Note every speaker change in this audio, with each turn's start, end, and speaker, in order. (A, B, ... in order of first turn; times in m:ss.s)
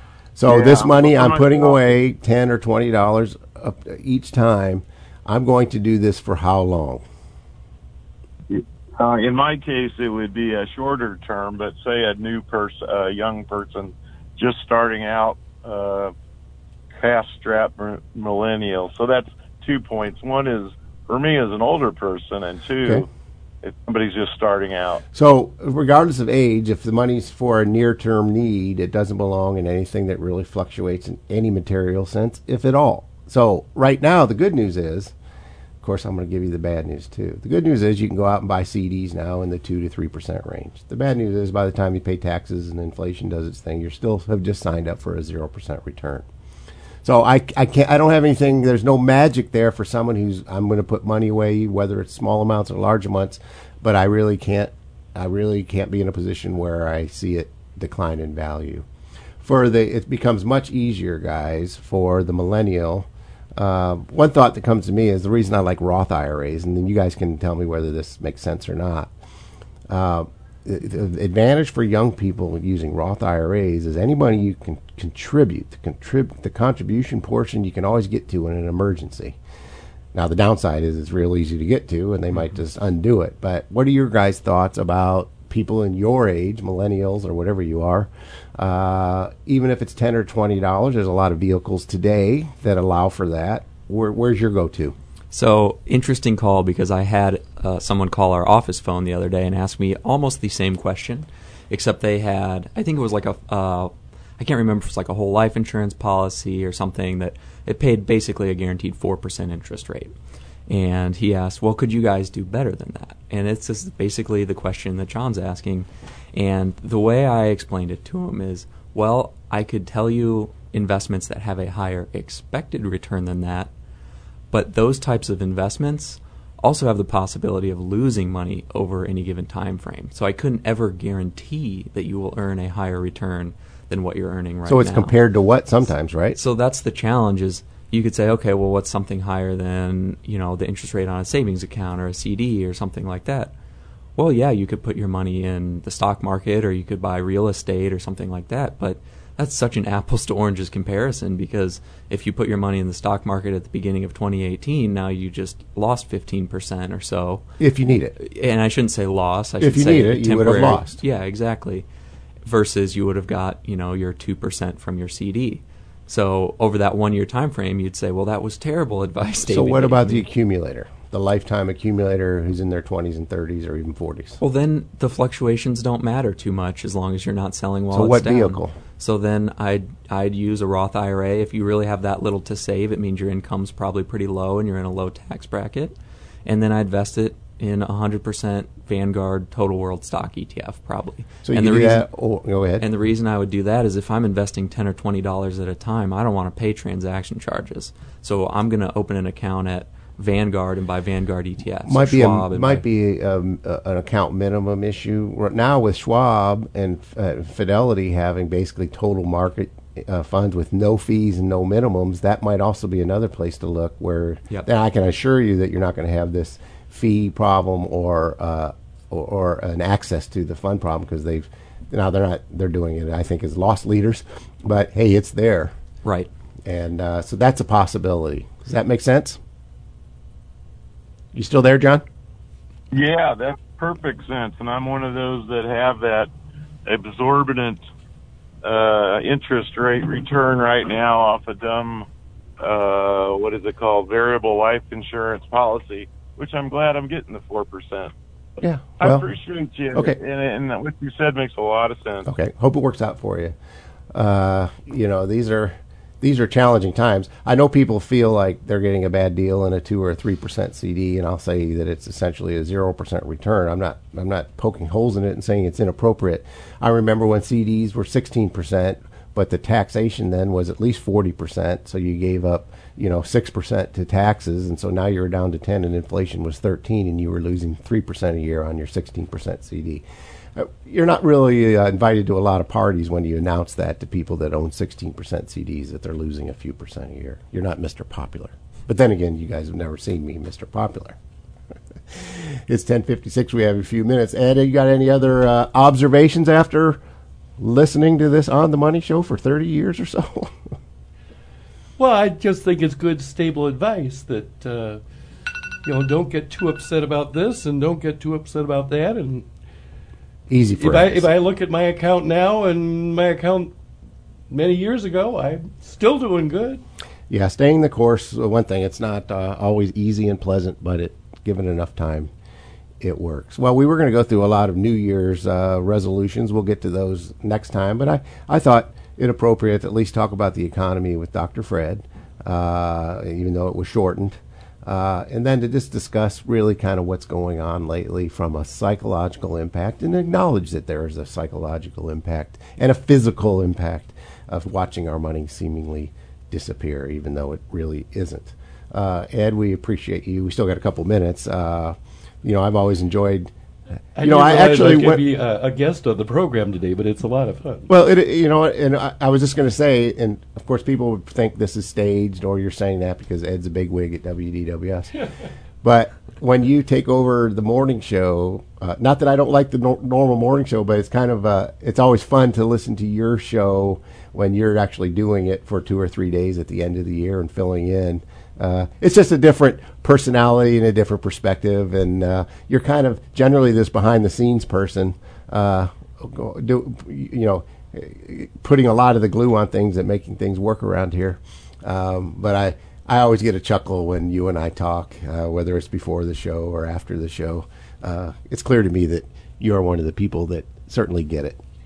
0:00.4-0:07.0 A
0:00.5-0:01.8 B
0:08.5-0:16.1 B
0:17.0-0:23.1 B
0:23.6-0:25.0 B
0:25.1-0:35.1 A
0:35.8-0:46.2 A
0:47.0-0:58.8 A
0:59.4-1:09.1 A
1:09.9-1:19.4 A
1:20.1-1:35.0 A
1:35.3-1:50.1 C
1:50.7-2:03.7 C
2:04.5-2:15.1 C
2:14.6-2:16.4 A
2:16.3-2:23.5 C
2:24.2-2:37.4 C
2:37.6-2:38.2 A
2:38.2-2:41.8 C
2:39.6-2:41.0 A
2:42.4-2:50.2 C
2:49.4-2:54.4 A
2:54.4-3:12.0 C
2:57.9-2:58.7 A
3:11.4-3:12.8 A
3:12.8-3:22.8 C
3:21.8-3:45.7 A
3:46.0-3:46.3 C
3:46.6-3:49.4 A
3:51.3-3:52.0 A
3:52.9-3:56.3 B
3:56.8-3:57.8 B
3:58.6-4:02.1 B
4:02.6-4:08.1 B
4:08.6-4:09.3 A
4:09.0-4:12.3 B
4:12.2-4:13.6 A
4:14.1-4:40.0 A
4:40.5-4:51.2 A
4:52.1-4:57.0 A
4:57.6-5:00.5 A
5:02.0-5:05.0 D
5:05.8-5:09.5 D
5:10.5-5:11.2 A
5:10.7-5:13.7 D
5:14.5-5:16.8 D
5:17.3-5:22.3 A
5:23.0-5:53.5 A
5:54.2-5:57.9 D
5:54.2-5:55.2 A
5:57.9-6:05.1 A
6:05.8-6:41.6 A